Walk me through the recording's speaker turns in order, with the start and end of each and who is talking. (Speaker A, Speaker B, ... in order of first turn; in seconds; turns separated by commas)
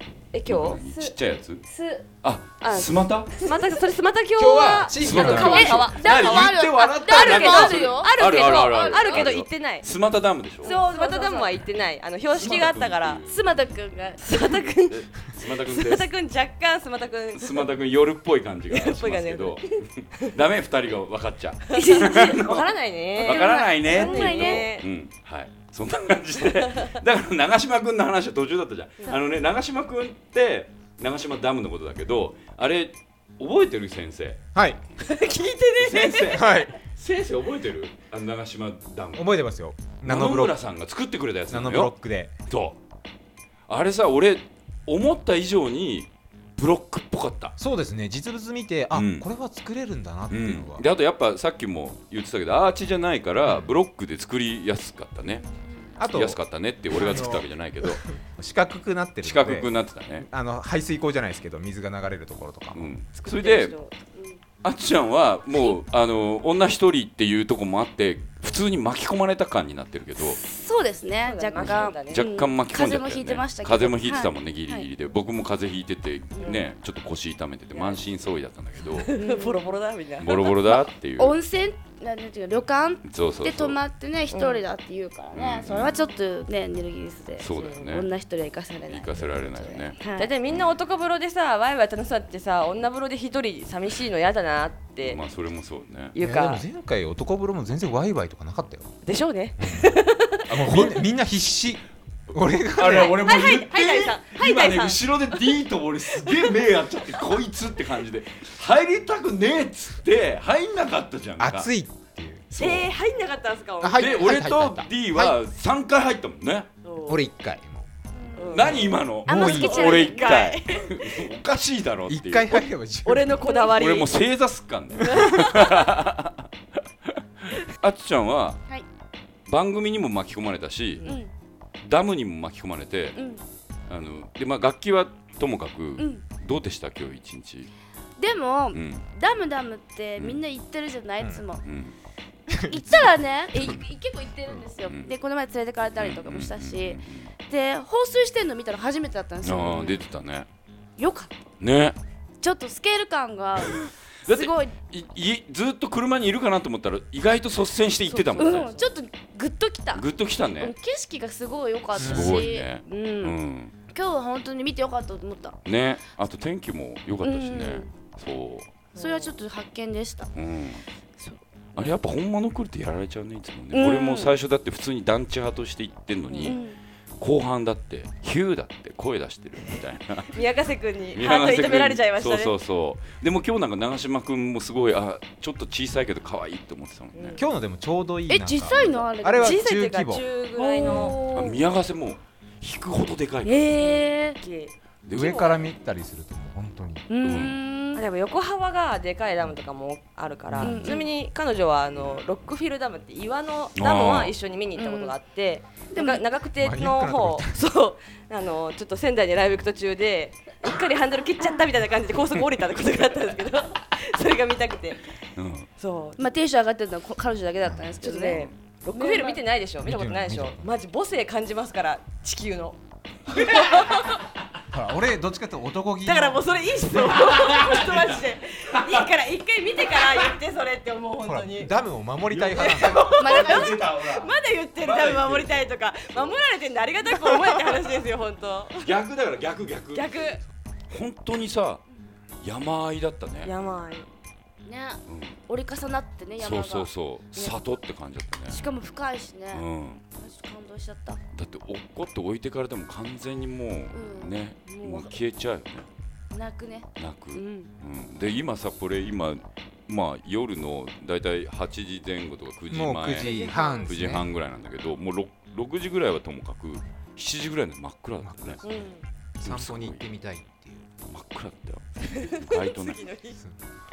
Speaker A: 0.3-0.8, Speaker B: 0.5-1.6, Speaker C: 0.8-2.1, Speaker B: 2.2-3.4, Speaker A: 2.6-9.9, Speaker C: 3.4-3.7, Speaker D: 4.4-5.9, Speaker B: 4.9-10.8, Speaker C: 5.3-9.3, Speaker A: 10.6-13.2, Speaker C: 10.6-11.6, Speaker B: 12.3-13.5, Speaker C: 13.3-14.3, Speaker A: 14.2-17.7, Speaker B: 14.9-16.1, Speaker B: 17.4-34.4, Speaker A: 18.7-19.7, Speaker A: 21.7-24.9, Speaker C: 21.8-22.4, Speaker C: 23.2-24.7, Speaker D: 34.5-34.8, Speaker A: 35.0-36.5, Speaker B: 35.8-39.3, Speaker D: 36.3-36.7, Speaker D: 39.1-40.6, Speaker B: 40.0-41.9, Speaker D: 41.5-42.3, Speaker B: 42.5-42.8, Speaker B: 43.7-47.6, Speaker D: 47.6-50.9, Speaker B: 48.9-49.3, Speaker B: 50.3-55.5, Speaker D: 53.5-53.7, Speaker D: 56.0-62.9, Speaker B: 56.0-58.1, Speaker B: 59.2-60.3, Speaker B: 62.7-63.8, Speaker A: 63.2-64.0, Speaker B: 64.6-70.4, Speaker C: 70.2-74.9, Speaker A: 71.2-72.3, Speaker B: 71.6-79.1, Speaker A: 78.9-80.7, Speaker C: 79.2-79.8, Speaker B: 80.2-81.4, Speaker C: 80.7-90.3, Speaker B: 83.0-83.8, Speaker A: 84.3-84.6, Speaker B: 85.3-86.0, Speaker B: 87.4-88.1, Speaker A: 87.5-87.9, Speaker B: 88.9-90.7, Speaker A: 90.1-95.2, Speaker B: 95.0-96.1, Speaker A: 96.1-96.6, Speaker D: 96.2-98.9, Speaker A: 99.0-101.0, Speaker D: 99.6-100.0, Speaker B: 100.5-101.1, Speaker D: 100.5-103.2, Speaker B: 102.8-111.7, Speaker A: 103.2-105.0, Speaker A: 106.2-106.6, Speaker D: 111.4-112.5, Speaker B: 112.5-112.9, Speaker A: 112.6-114.5, Speaker D: 113.8-115.4, Speaker B: 114.0-116.7, Speaker A: 116.8-117.2, Speaker D: 117.1-117.9, Speaker C: 118.1-120.4, Speaker A: 118.4-121.2, Speaker B: 118.5-122.6, Speaker D: 119.3-119.9, Speaker D: 122.1-123.4, Speaker A: 123.0-124.2, Speaker C: 123.4-123.8, Speaker B: 123.7-126.5, Speaker D: 125.0-125.3, Speaker A: 125.0-125.9, Speaker B: 127.4-128.6, Speaker B: 129.5-131.1, Speaker C: 131.0-131.3, Speaker B: 131.8-133.2, Speaker C: 133.2-133.4, Speaker B: 133.9-137.7, Speaker C: 136.0-136.2, Speaker C: 138.2-141.6, Speaker B: 138.7-139.1, Speaker B: 141.6-141.9, Speaker D: 142.5-143.1, Speaker C: 142.5-150.1, Speaker B: 144.8-145.1, Speaker B: 146.0-147.3, Speaker B: 149.4-150.5, Speaker C: 151.0-151.4, Speaker B: 151.6-152.0, Speaker C: 152.4-154.8, Speaker B: 153.7-158.7, Speaker A: 158.1-158.9, Speaker C: 158.3-160.1, Speaker B: 159.9-160.7, Speaker C: 160.6-163.4, Speaker B: 161.9-163.7, Speaker D: 161.9-162.5, Speaker C: 163.9-165.6, Speaker B: 165.7-168.7, Speaker C: 167.2-167.9, Speaker C: 168.9-170.3, Speaker A: 169.0-169.3, Speaker B: 170.3-170.8, Speaker B: 171.8-176.6, Speaker C: 173.7-174.3, Speaker A: 176.3-176.6, Speaker C: 176.4-176.8, Speaker B: 177.2-180.4, Speaker A: 180.3-182.5, Speaker B: 181.1-187.4, Speaker A: 187.1-187.5, Speaker D: 187.4-190.3, Speaker C: 188.3-189.6, Speaker A: 189.4-191.2, Speaker C: 190.6-191.6, Speaker B: 190.9-193.7, Speaker C: 193.4-194.4, Speaker A: 193.7-195.7, Speaker B: 195.1-195.6, Speaker D: 195.1-197.1, Speaker C: 197.1-198.0, Speaker B: 197.2-197.6, Speaker A: 197.9-215.1, Speaker D: 200.5-200.8, Speaker C: 200.6-201.1, Speaker B: 201.9-202.3, Speaker B: 203.8-204.3, Speaker C: 204.8-205.2, Speaker C: 205.9-206.3, Speaker D: 206.6-207.6, Speaker B: 215.4-215.7, Speaker A: 215.8-216.2, Speaker C: 216.2-219.4, Speaker D: 217.7-218.0, Speaker A: 218.0-224.2, Speaker B: 218.2-218.5, Speaker D: 219.8-220.7, Speaker D: 224.7-227.1, Speaker A: 226.0-231.7, Speaker B: 227.0-229.0, Speaker D: 231.2-233.1, Speaker B: 232.3-236.4, Speaker A: 232.5-238.9, Speaker C: 233.2-233.8, Speaker B: 238.8-240.3, Speaker A: 239.9-240.4, Speaker B: 240.9-241.8, Speaker B: 242.4-243.6, Speaker A: 243.4-244.1, Speaker C: 244.7-247.6, Speaker B: 245.1-245.4, Speaker B: 246.4-248.7, Speaker C: 248.5-251.2, Speaker B: 249.5-250.0, Speaker B: 251.3-255.9, Speaker C: 253.9-255.2, Speaker C: 256.3-257.7, Speaker B: 257.0-263.3, Speaker D: 262.7-264.3, Speaker A: 263.2-263.9, Speaker C: 263.4-263.7, Speaker B: 263.9-268.6, Speaker D: 268.2-268.9, Speaker A: 268.6-269.0, Speaker D: 269.4-270.9, Speaker B: 269.4-270.0, Speaker B: 271.1-273.0, Speaker A: 272.1-273.4